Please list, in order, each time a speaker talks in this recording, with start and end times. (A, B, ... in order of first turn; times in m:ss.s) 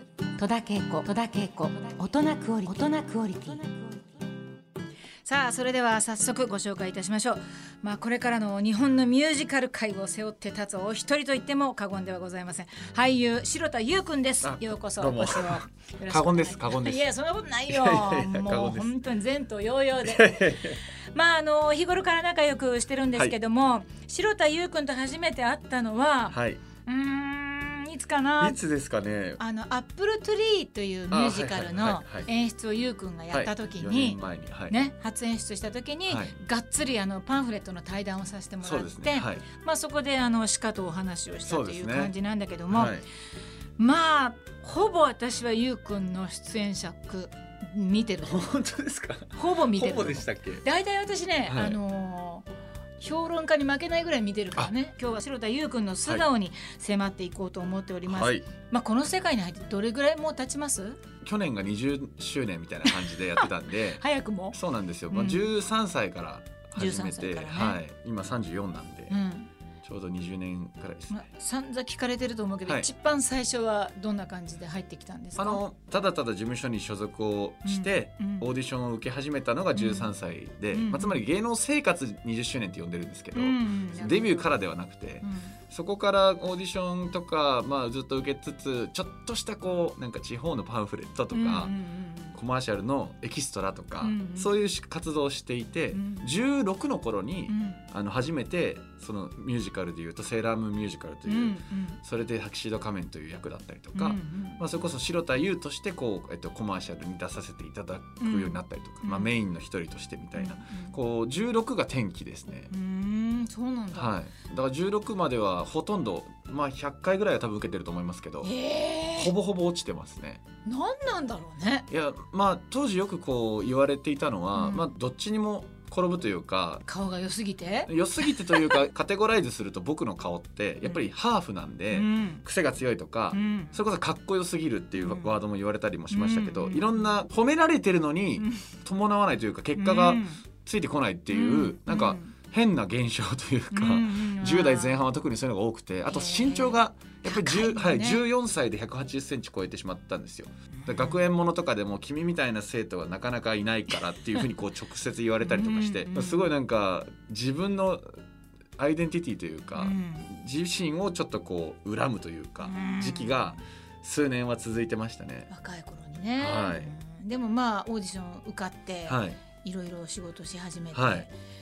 0:00.4-0:04.0 A
0:00.5-0:02.9 B
0:05.2-0:28.6 B
0:14.4-0:17.1 C
0:17.7-0:18.9 C
0:20.0-0:20.8 C
0:26.3-0:26.6 C
0:28.4-0:29.4 C
0:29.4-0:43.0 B
0:31.1-0:32.3 C
0:33.3-0:34.8 C
0:36.1-0:36.3 C
0:38.6-0:39.4 C
0:41.4-0:42.1 C
0:42.7-0:43.0 C
0:43.8-0:48.5 B
0:48.2-0:50.6 C
0:49.3-1:01.0 B
0:51.5-0:51.8 C
0:58.1-0:58.5 C
1:01.2-1:09.2 C
1:02.8-1:04.6 B
1:05.1-1:05.5 B
1:06.8-1:07.8 B
1:09.1-1:09.5 B
1:09.8-1:11.2 C
1:11.1-1:15.6 B
1:15.4-1:31.7 C
1:17.6-1:18.5 B
1:19.7-1:20.1 B
1:20.7-1:21.2 B
1:23.3-1:24.5 B
1:25.2-1:25.5 B
1:31.3-1:32.4 B
1:32.3-1:52.7 C
1:34.0-1:34.5 B
1:35.9-1:36.3 B
1:37.5-1:37.8 B
1:41.3-1:42.0 B
1:43.9-1:44.6 B
1:48.2-1:49.3 B
1:50.3-1:51.0 B
1:52.7-1:54.1 B
1:53.9-1:58.5 C
1:58.4-1:59.3 B
1:59.1-2:00.4 C
2:00.6-2:01.9 B
2:01.9-2:06.8 C
2:04.5-2:04.9 B
2:06.8-2:08.8 B
2:07.9-2:38.2 C
2:11.9-2:12.4 B
2:13.3-2:13.8 B
2:15.0-2:15.3 B
2:16.1-2:17.2 B
2:18.4-2:18.7 B
2:19.8-2:20.4 B
2:21.3-2:22.3 B
2:23.7-2:25.0 B
2:26.1-2:28.2 B
2:30.8-2:31.2 B
2:35.4-2:36.5 B
2:38.8-2:45.5 C
2:39.8-2:40.3 B
2:42.6-2:43.4 B
2:45.5-2:51.3 B
2:46.4-2:46.9 C
2:49.1-2:49.4 C
2:50.9-2:51.3 C